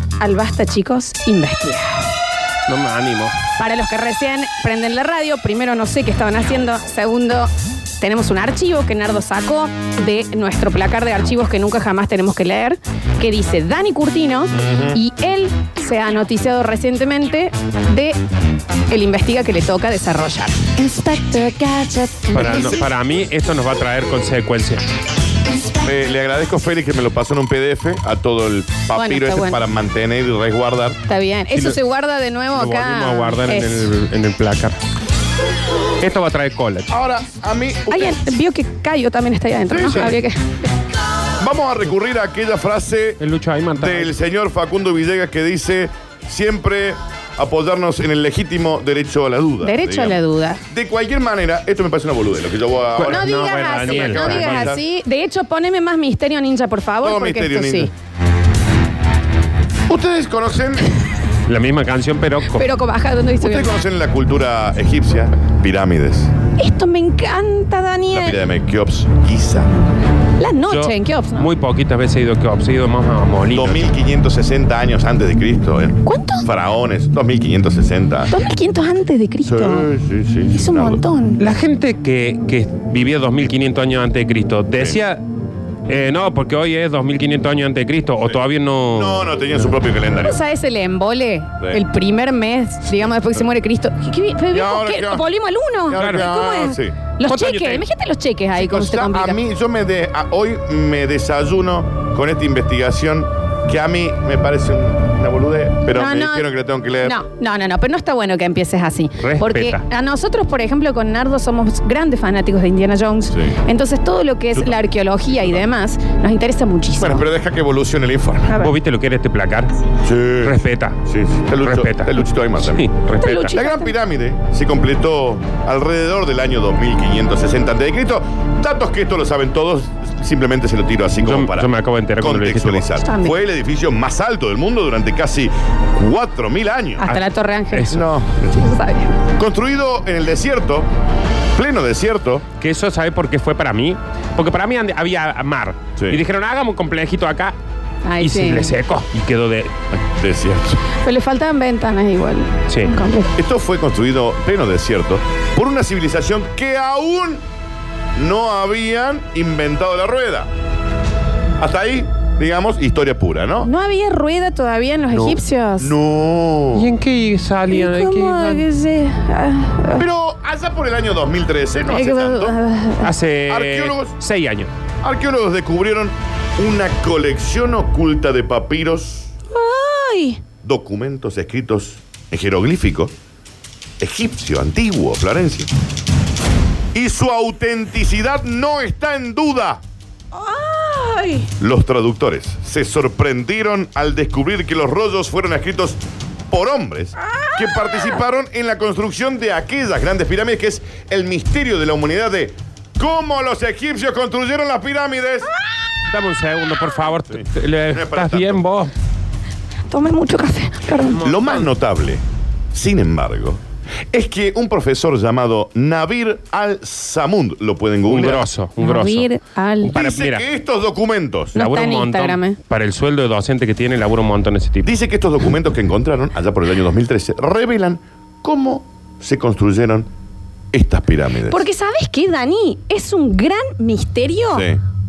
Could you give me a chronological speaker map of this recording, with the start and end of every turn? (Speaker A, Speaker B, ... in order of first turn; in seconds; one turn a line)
Speaker A: 0.2-2.1
Speaker B: 2.7-3.4
Speaker A: 3.6-18.2
Speaker C: 14.5-15.0
Speaker A: 18.9-22.8
Speaker B: 22.3-24.8
Speaker C: 25.8-31.0
Speaker A: 28.9-29.6
Speaker A: 31.1-33.9
Speaker B: 32.5-34.8
Speaker B: 36.0-36.9
Speaker C: 36.9-38.2
Speaker A: 37.9-40.5
Speaker C: 39.7-40.2
Speaker C: 41.4-43.2
Speaker B: 43.2-44.1
Speaker C: 43.8-54.8
Speaker A: 49.6-50.6
Speaker B: 53.0-54.7
Speaker A: 53.0-57.9
Speaker C: 57.0-57.9
Speaker C: 59.9-60.9
Speaker B: 61.5-62.6
Speaker A: 62.5-63.7
Speaker C: 63.4-66.3
Speaker A: 66.6-68.5
Speaker C: 68.1-69.7
Speaker A: 70.4-71.5
Speaker B: 70.7-73.8
Speaker C: 73.5-78.4
Speaker A: 76.0-76.5
Speaker A: 78.3-79.9
Speaker C: 79.4-81.0
Speaker A: 80.5-81.4
Speaker B: 81.4-85.2
Speaker C: 84.8-85.0
Speaker B: 85.9-89.3
Speaker C: 88.9-90.4
Speaker A: 90.2-99.4
Speaker C: 94.5-95.2
Speaker C: 95.9-97.0
Speaker B: 95.9-96.3
Speaker B: 97.2-97.8
Speaker C: 98.5-107.2
Speaker A: 105.9-106.5
Speaker A: 107.0-117.2
Speaker B: 109.2-109.8
Speaker C: 113.3-113.6
Speaker C: 114.5-115.6
Speaker C: 117.0-118.5
Speaker B: 118.6-119.7
Speaker C: 120.0-122.9
Speaker B: 120.4-121.0
Speaker B: 121.6-123.6
Speaker A: 123.2-123.9
Speaker C: 123.5-137.1
Speaker B: 131.2-132.9
Speaker A: 133.0-133.4
Speaker A: 137.0-139.1
Speaker B: 137.1-138.0
Speaker C: 137.9-138.7
Speaker C: 139.3-140.9
Speaker C: 141.5-142.4
Speaker B: 142.6-147.6
Speaker C: 146.0-146.2
Speaker A: 148.0-148.8
Speaker B: 148.2-149.7
Speaker C: 149.9-150.8
Speaker A: 150.9-153.3
Speaker C: 153.3-157.4
Speaker C: 158.2-160.5
Speaker C: 161.6-163.7
Speaker A: 163.6-165.9
Speaker C: 165.8-166.9
Speaker B: 166.7-168.6
Speaker A: 167.7-170.0
Speaker C: 169.9-172.5
Speaker A: 171.8-173.1
Speaker B: 173.0-174.7
Speaker C: 173.5-174.1
Speaker C: 175.0-179.3
Speaker A: 179.5-180.4
Speaker C: 180.6-183.1
Speaker C: 184.0-185.7
Speaker C: 186.9-189.8
Speaker A: 190.3-191.5
Speaker C: 191.6-205.5
Speaker A: 197.2-198.2
Speaker B: 206.1-208.9
Speaker C: 207.3-208.6
Speaker A: 209.9-211.3
Speaker C: 211.2-213.6
Speaker B: 211.2-211.6
Speaker C: 214.1-218.5
Speaker B: 218.1-219.3
Speaker A: 218.8-219.9
Speaker B: 219.8-220.4
Speaker C: 219.9-221.5
Speaker B: 221.5-224.9
Speaker A: 221.5-222.6
Speaker C: 224.8-230.1
Speaker C: 230.7-231.6
Speaker A: 231.5-234.7
Speaker C: 234.5-234.8